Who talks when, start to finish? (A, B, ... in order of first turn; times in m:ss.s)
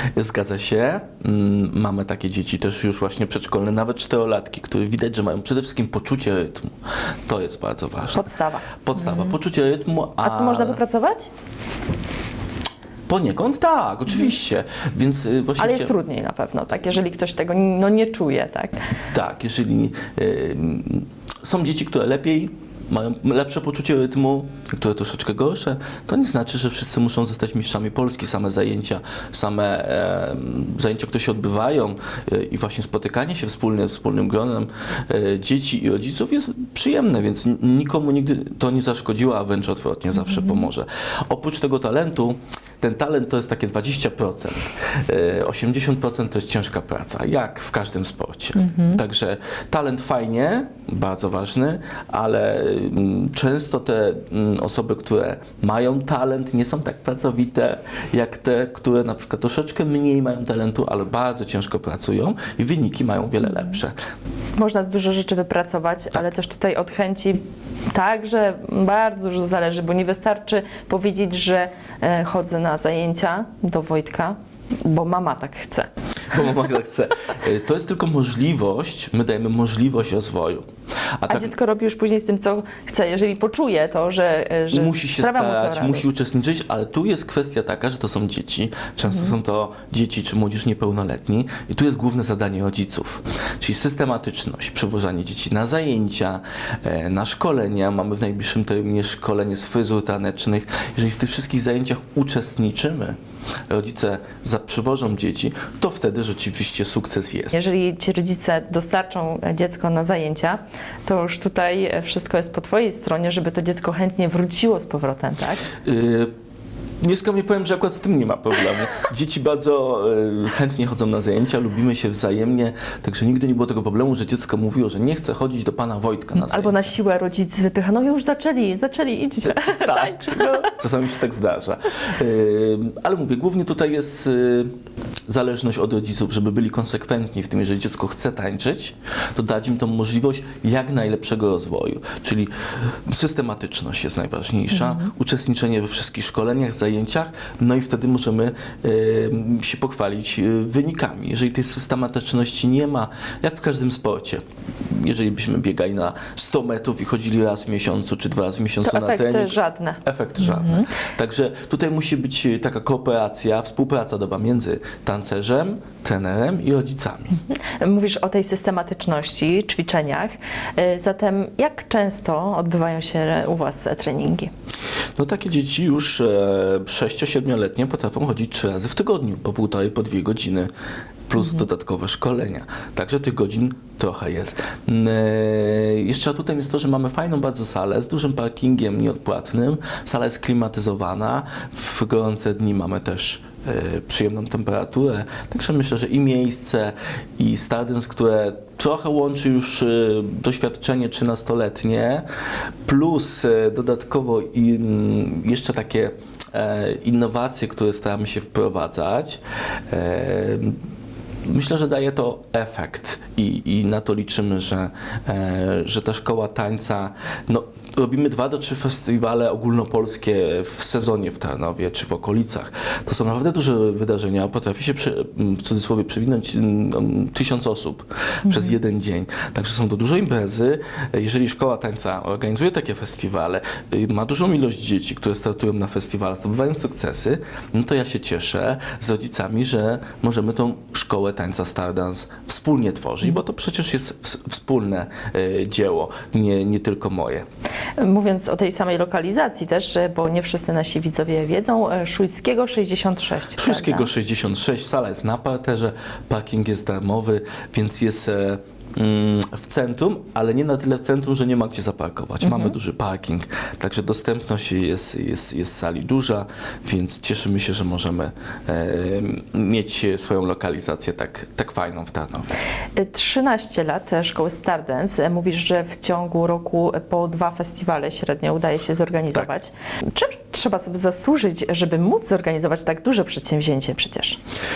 0:00.2-0:10.8 A
0:08.1-0:09.3 B
0:10.2-0:11.3 B
0:13.1-0:15.9 A
0:15.6-0:18.8 B
0:19.1-1:03.9 A
0:48.6-0:49.0 B
1:04.6-1:15.9 B
1:16.3-1:20.7 A
1:21.2-1:21.5 A
1:21.3-1:26.0 B
1:24.7-1:43.2 A
1:43.7-1:47.5 A
1:47.5-1:55.6 B
1:55.8-1:56.3 A
1:57.0-2:06.9 A
2:06.4-2:10.7 B
2:09.5-2:14.7 A
2:15.3-2:47.4 A
2:38.8-2:40.9 B
2:47.5-2:54.5 B
2:55.2-3:00.7 A
3:01.3-3:22.2 A
3:22.8-3:30.8 A
3:31.4-4:07.4 A
4:08.0-4:14.1 B
4:13.6-4:32.5 A
4:22.4-4:22.7 B
4:33.0-4:44.4 B